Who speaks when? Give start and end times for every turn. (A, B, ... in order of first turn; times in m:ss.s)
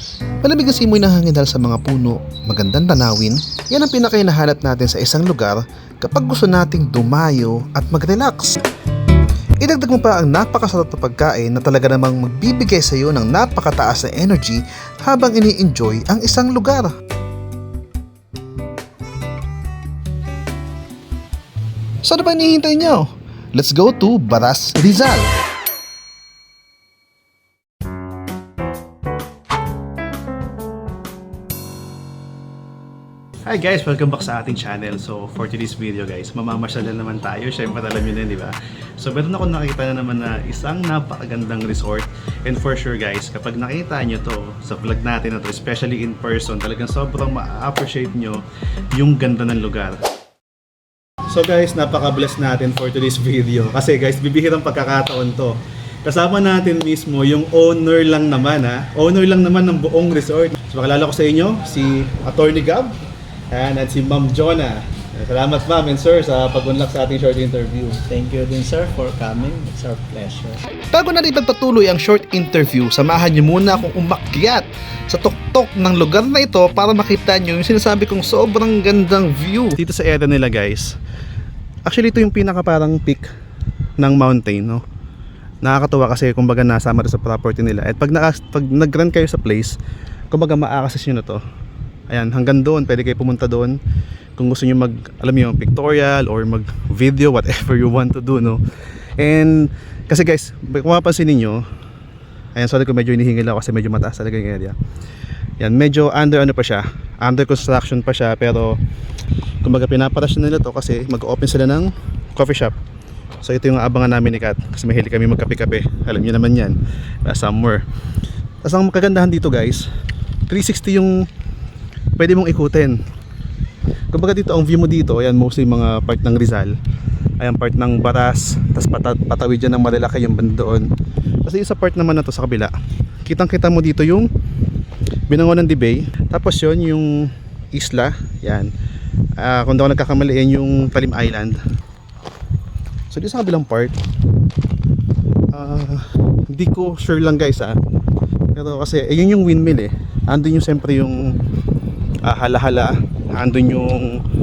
0:00.4-0:08.6 A
0:09.6-0:16.9 A
0:09.8-0:11.4 B
0:22.0-0:25.3 A
0:33.4-0:50.0 B
0:51.3-1:03.0 B
1:03.5-1:08.0 B
1:08.1-1:10.6 C
1:10.9-1:15.6 A
1:12.5-1:21.0 B
1:16.3-1:17.4 A
1:18.1-1:18.8 A
1:21.8-1:23.3 B
1:24.0-1:24.8 B
1:25.6-1:29.8 B
1:30.3-1:31.4 B
1:32.1-1:33.8 B
1:34.4-1:38.6 B
1:39.2-1:41.6 B
1:42.5-1:44.7 B
1:45.6-1:48.8 B
1:49.6-1:52.7 B
1:53.4-1:57.8 B
1:58.6-1:59.9 B
2:00.5-2:01.2 B
2:02.2-2:03.0 B
2:04.1-2:06.8 B
2:07.4-2:10.9 B
2:11.4-2:12.7 B
2:13.2-2:14.3 B
2:15.3-2:18.7 B
2:19.4-2:21.6 B
2:23.1-2:24.0 B
2:25.5-2:27.7 B
2:28.5-2:31.4 B
2:32.2-2:34.2 B